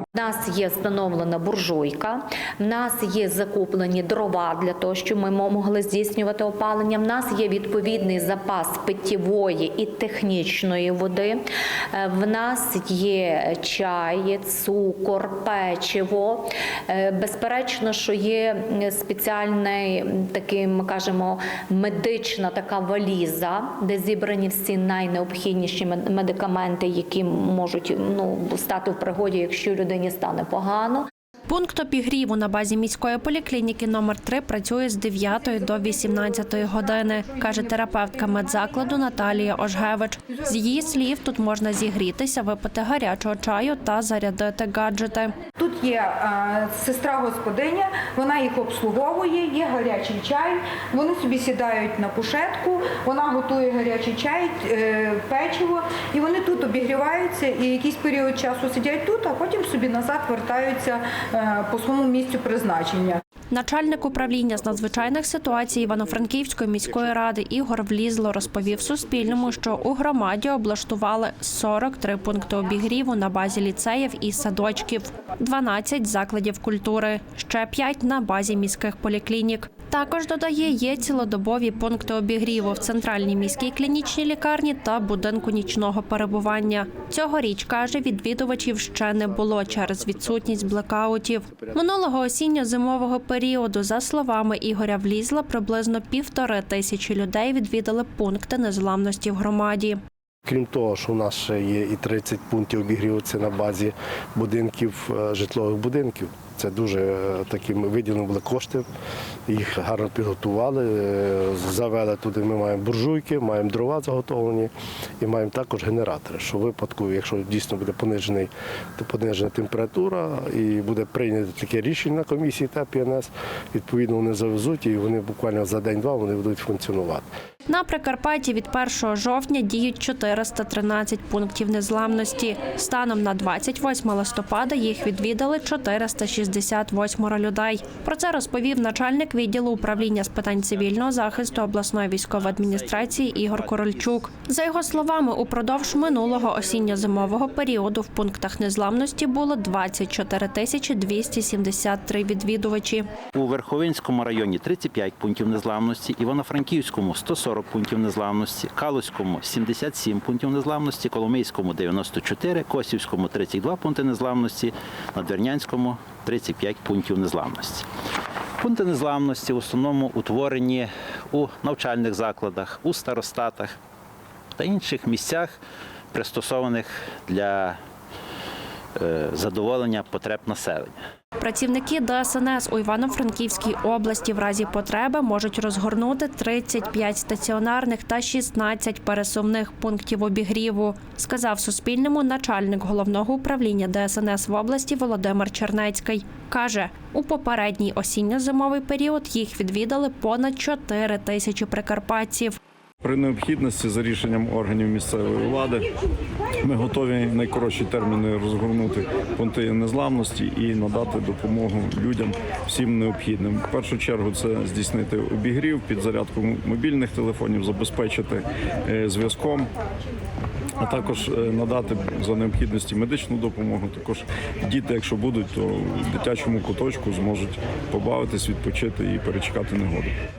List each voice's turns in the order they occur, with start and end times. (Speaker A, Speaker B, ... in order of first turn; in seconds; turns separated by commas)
Speaker A: 0.1-11.4, Speaker A: 11.9-31.1, Speaker B: 31.5-45.3, Speaker C: 36.3-39.2, Speaker C: 45.6-63.2, Speaker B: 63.5-100.0, Speaker D: 100.5-108.8, Speaker D: 109.5-127.3, Speaker B: 127.7-153.1, Speaker E: 142.3-144.2, Speaker E: 153.3-167.9, Speaker E: 168.6-173.8, Speaker E: 174.6-175.6, Speaker E: 176.1-177.8, Speaker E: 179.0-181.0, Speaker B: 181.4-202.6, Speaker F: 203.0-205.9, Speaker F: 206.6-219.7, Speaker F: 220.8-230.1